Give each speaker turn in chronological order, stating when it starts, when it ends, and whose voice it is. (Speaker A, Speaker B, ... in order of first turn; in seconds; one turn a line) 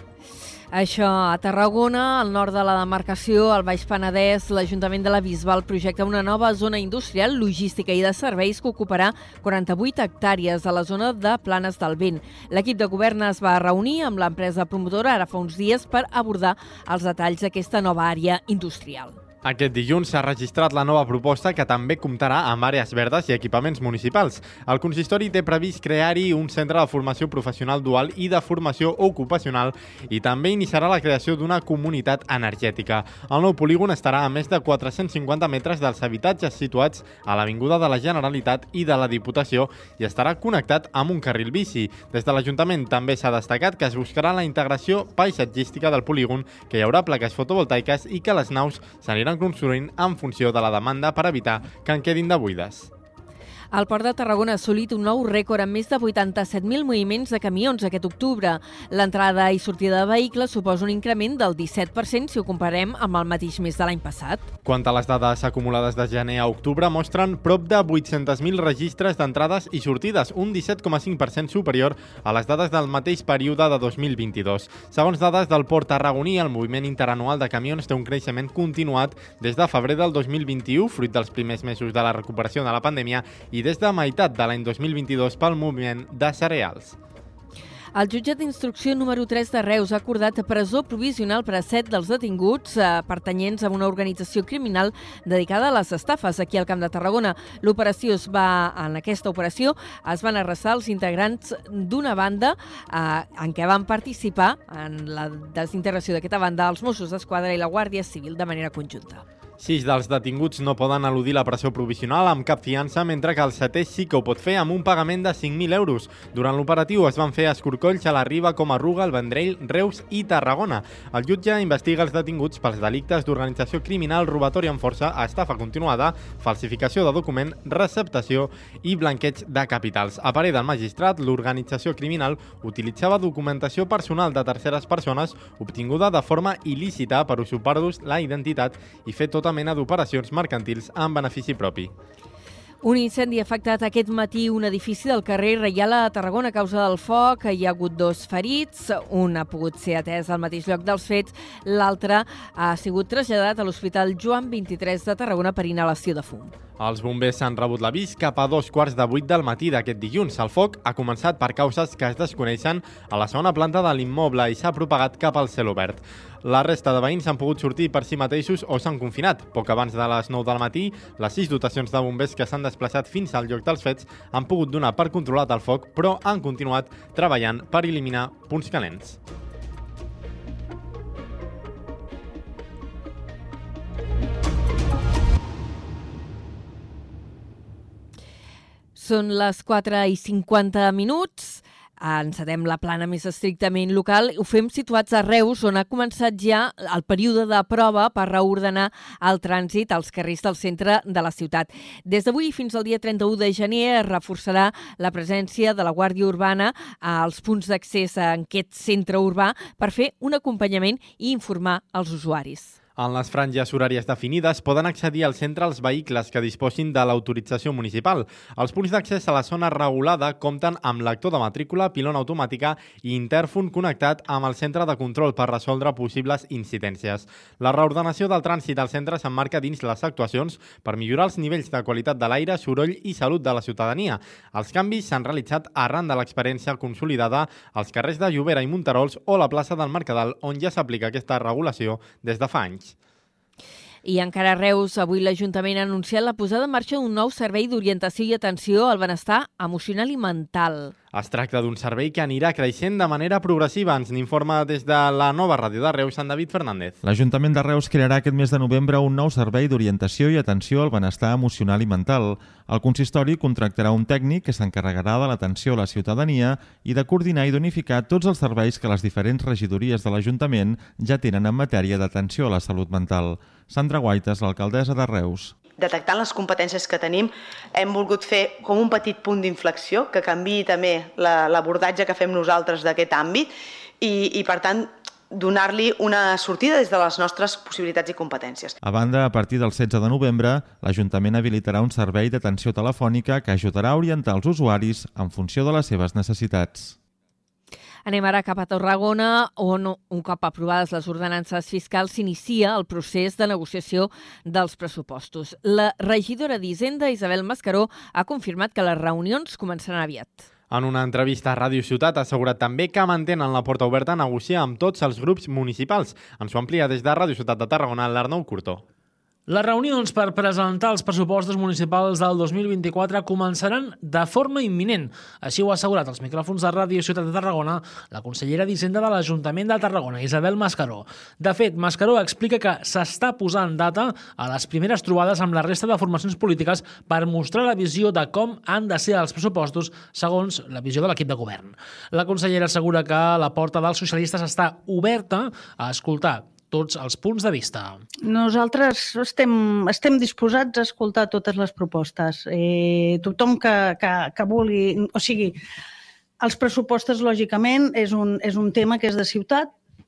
Speaker A: 0.7-19.2
Speaker B: 19.4-52.9
Speaker A: 53.7-64.5
Speaker B: 64.7-87.0
Speaker A: 88.0-109.2
Speaker B: 109.6-141.9
Speaker A: 142.8-156.5
Speaker B: 156.8-179.2
Speaker A: 189.0-212.8
Speaker B: 213.0-242.9
Speaker A: 244.0-250.9
Speaker B: 251.1-257.0
Speaker C: 257.0-275.5
Speaker D: 275.8-283.5
Speaker D: 284.0-288.8
Speaker C: 288.8-297.0
Speaker A: 298.1-310.5
Speaker B: 310.7-318.8
Speaker E: 319.5-348.0
Speaker F: 348.2-355.6
Speaker F: 356.4-359.7